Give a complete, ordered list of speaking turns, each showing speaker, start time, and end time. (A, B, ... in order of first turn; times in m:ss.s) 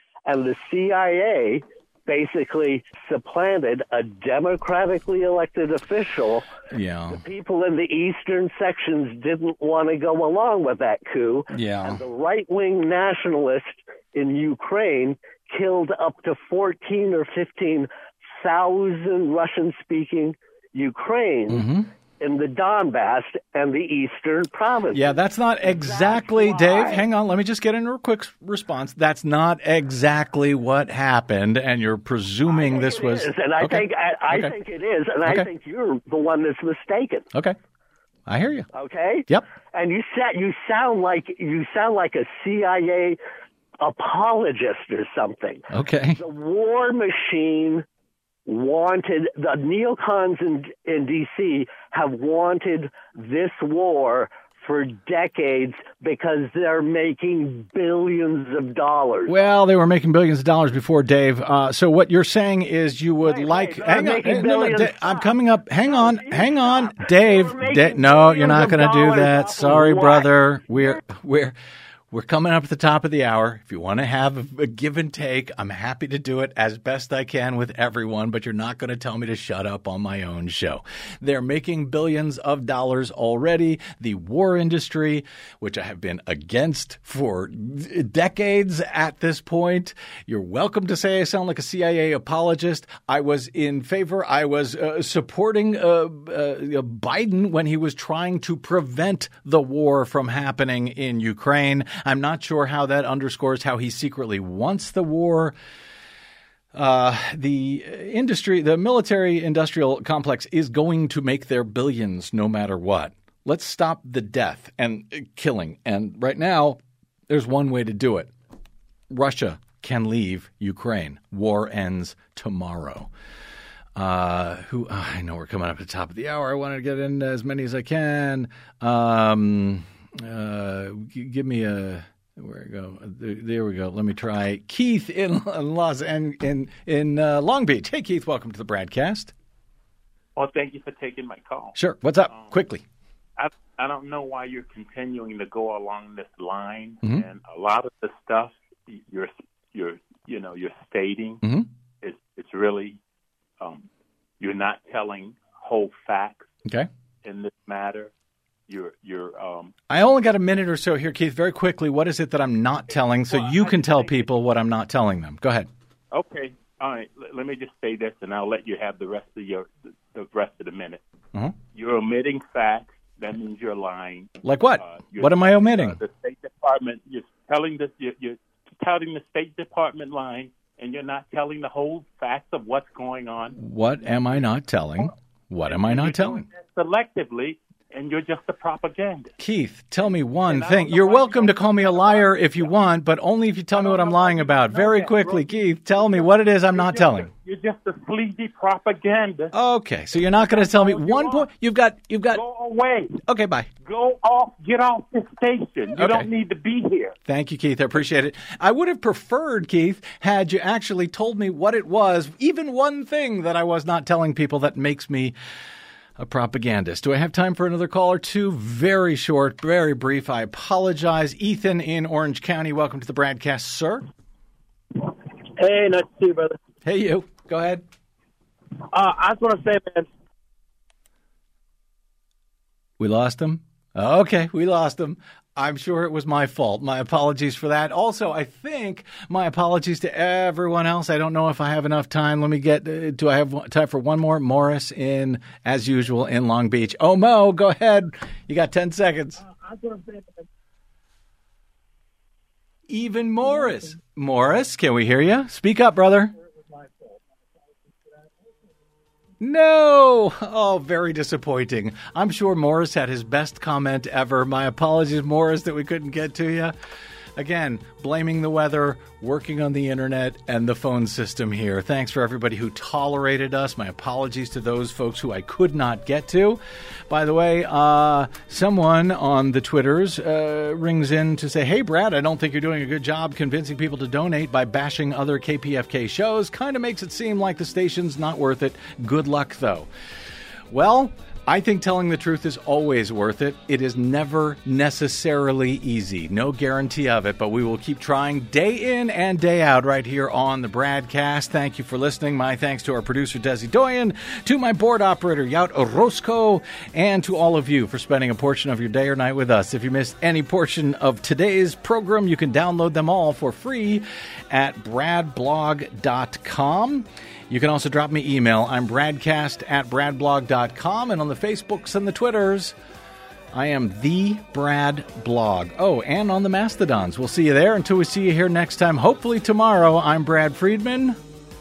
0:00.3-0:06.5 A
0:06.7-0:07.2 B
0:07.1-0:21.7 A
0:11.5-0:12.0 B
0:21.5-0:21.9 B
0:22.2-0:27.1 A
0:24.9-0:34.5 B
0:32.5-0:37.3 A
0:35.2-0:35.5 B
0:38.3-0:38.7 B
0:38.7-0:43.2 A
0:43.8-0:47.9 A
0:45.7-0:46.2 B
0:48.5-0:59.4 A
0:59.3-1:11.6 B
1:03.2-1:11.0 A
1:12.1-1:45.6 B
1:46.7-1:58.3 B
1:59.1-2:03.1 B
2:04.0-2:19.3 B
2:20.4-2:22.6 C
2:21.8-2:22.8 B
2:23.4-2:31.4 C
2:31.4-2:31.7 B
2:32.0-2:33.0 C
2:33.6-2:33.8 C
2:34.4-2:36.5 C
2:37.2-2:38.1 C
2:38.7-2:39.7 C
2:39.9-2:45.7 B
2:43.3-2:44.3 C
2:46.1-2:51.0 C
2:51.7-3:04.5 C
2:54.4-2:56.0 B
3:03.6-3:06.4 B
3:05.6-3:09.3 C
3:09.4-3:17.3 B
3:10.4-3:12.7 C
3:13.7-3:19.5 C
3:19.5-3:22.4 B
3:20.2-3:21.5 C
3:22.3-3:23.2 C
3:23.2-3:23.7 B
3:23.8-3:27.2 C
3:25.9-3:26.3 B
3:27.3-3:35.4 B
3:36.2-3:44.1 B
3:45.0-3:46.6 D
3:46.8-3:47.8 B
3:48.9-3:50.1 D
3:53.0-4:09.4 B
4:12.9-4:16.3 B
4:19.4-4:26.8 B
4:27.4-4:49.9 B
4:50.7-5:22.8 B
5:23.5-5:31.2 B